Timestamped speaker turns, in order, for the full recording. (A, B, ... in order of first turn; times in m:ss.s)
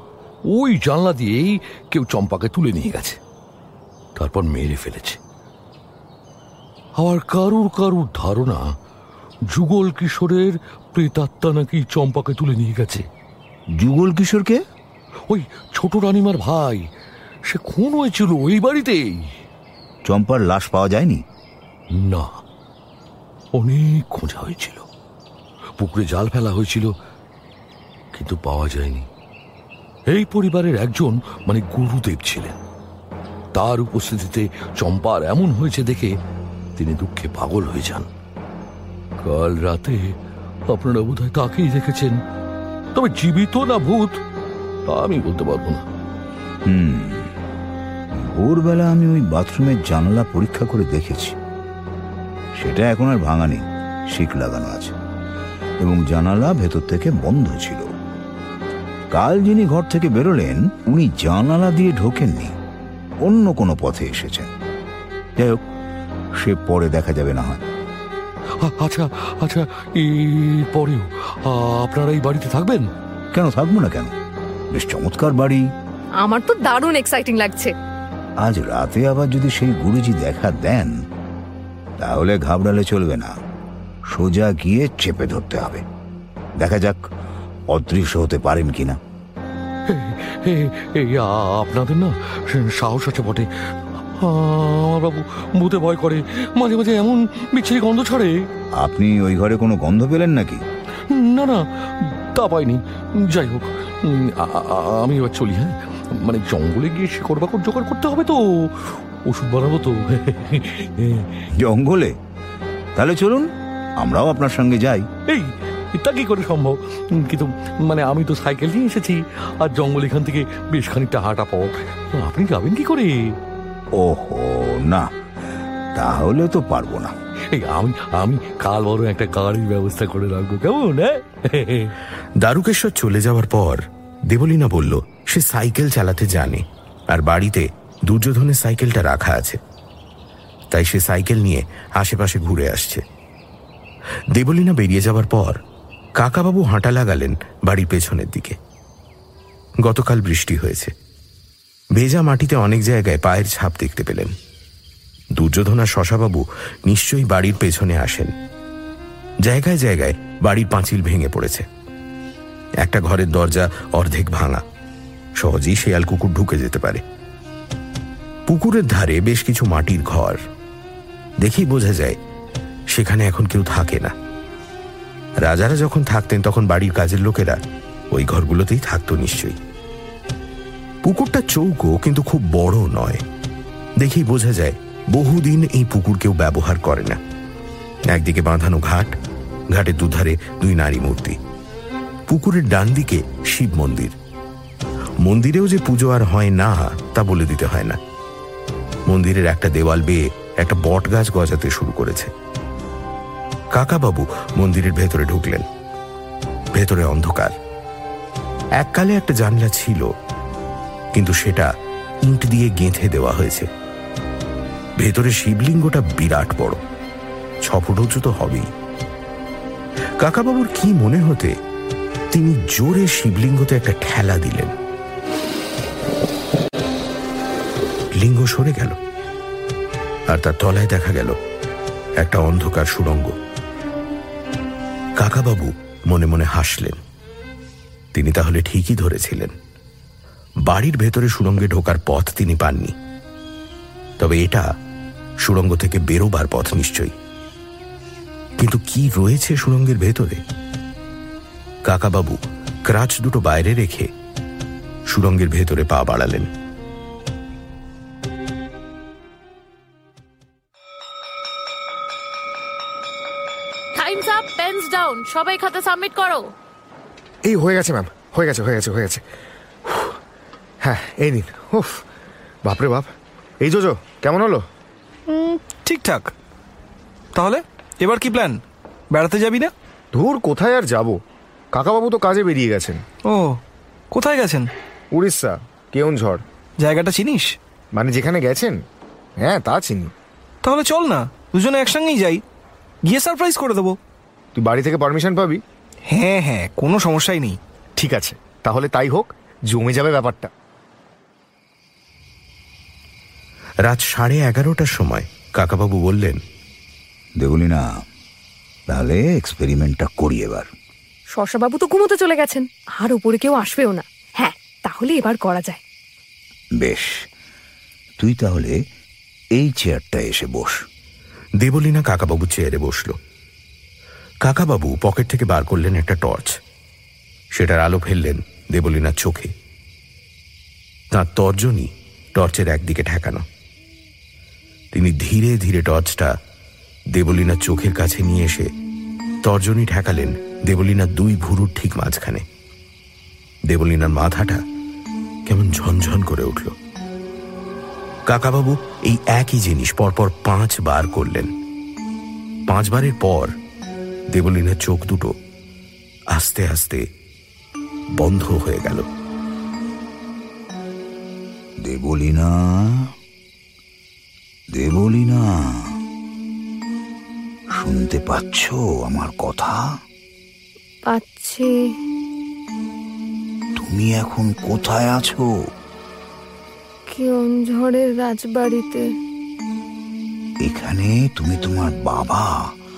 0:00.5-0:03.2 A
0:04.2-0:05.2 A
0:07.0-0:08.6 A
0:09.5-0:13.0 A
0:13.8-0:14.6 B
0:15.3-0:16.9 A
0:17.5-0:19.4 A
0:20.1-0:21.2 B
0:21.9-0:22.4 A
0:23.6-0:24.9 A
0:25.8-0:26.9 A
0:28.1-0:29.1 A
0:30.1-0:32.6 A
0:33.6-0:36.1 A
0:36.8-0:38.1 A
0:39.2-0:40.1 A
0:40.7-0:42.2 A
0:42.9-0:44.2 A
0:44.9-0:45.9 A
0:46.6-0:47.3 B
0:48.2-0:51.4 B
0:52.6-0:55.0 B
0:55.8-0:57.9 B
0:59.1-1:02.5 B
1:03.2-1:04.5 B
1:05.4-1:05.6 B
1:06.4-1:07.6 B
1:08.6-1:12.9 A
1:13.3-1:14.1 B
1:14.7-1:15.6 B
1:16.2-1:17.7 C
1:18.4-1:20.9 B
1:22.0-1:23.3 B
1:24.1-1:25.8 B
1:26.6-1:27.0 B
1:27.7-1:29.0 B
1:29.9-1:38.4 A
1:38.8-1:40.6 B
1:41.1-1:51.3 A
1:51.6-1:52.2 B
1:53.0-1:55.1 B
1:55.3-2:03.1 A
2:04.0-2:05.1 B
2:06.0-2:07.1 B
2:07.5-2:11.9 A
2:12.4-2:19.6 D
2:20.7-2:23.0 D
2:24.3-2:25.6 D
2:26.2-2:28.6 D
2:29.8-2:30.9 D
2:32.0-2:34.3 D
2:35.4-2:38.3 D
2:39.4-2:41.7 D
2:42.8-2:44.6 D
2:45.4-2:47.0 D
2:48.5-2:50.4 D
2:51.4-2:52.2 D
2:52.9-2:54.1 D
2:55.4-2:57.6 D
2:58.1-2:59.6 D
3:01.0-3:03.2 D
3:04.0-3:07.2 D
3:08.1-3:09.2 D
3:09.7-3:11.4 D
3:12.3-3:14.2 D
3:15.2-3:18.0 D
3:19.1-3:22.3 D
3:23.7-3:25.6 D
3:26.7-3:27.6 D
3:28.8-3:30.1 D
3:31.2-3:31.7 D
3:32.3-3:33.7 D
3:35.0-3:36.8 D
3:37.7-3:38.7 D
3:40.2-3:41.5 D
3:42.3-3:44.7 D
3:48.2-3:49.0 D
3:50.3-3:51.4 D
3:52.2-3:53.3 D
3:55.2-3:57.0 D
3:58.1-3:59.5 D
4:00.7-4:02.9 D
4:04.2-4:04.6 D
4:05.4-4:07.1 D
4:08.6-4:10.4 D
4:11.9-4:14.1 D
4:15.1-4:16.5 D
4:23.9-4:26.5 E
4:27.5-4:29.2 F
4:30.8-4:32.0 F
4:32.6-4:33.1 F
4:33.6-4:34.6 F
4:35.3-4:36.3 G
4:37.4-4:38.6 G
4:39.1-4:39.7 G
4:40.1-4:41.2 F
4:41.7-4:43.0 F
4:43.3-4:43.6 G
4:44.1-4:44.7 G
4:45.1-4:46.4 F
4:46.8-4:47.6 G
4:47.9-4:48.8 F
4:49.4-4:50.1 F
4:50.6-4:52.4 G
4:53.1-4:54.0 G
4:54.6-4:55.6 F
4:56.1-4:57.6 G
4:58.0-5:00.5 F
5:03.8-5:06.4 D
5:07.4-5:07.8 B
5:08.9-5:10.7 B
5:11.3-5:15.8 C
5:16.8-5:17.1 B
5:18.2-5:18.8 B
5:19.6-5:20.8 B
5:21.6-5:23.2 D
5:24.4-5:26.6 D
5:27.5-5:29.5 D
5:31.1-5:33.4 D
5:34.9-5:36.3 D
5:37.1-5:38.7 D
5:39.4-5:42.4 D
5:43.7-5:44.6 D
5:45.5-5:46.8 D
5:48.3-5:51.5 D
5:52.7-5:53.5 D
5:54.3-5:55.4 D
5:56.3-5:57.0 D
5:58.2-5:59.1 D
6:01.8-6:03.1 B
6:04.7-6:05.8 B
6:07.8-6:09.8 B
6:11.1-6:11.7 C
6:13.8-6:15.5 B
6:17.1-6:19.0 C
6:20.6-6:22.5 B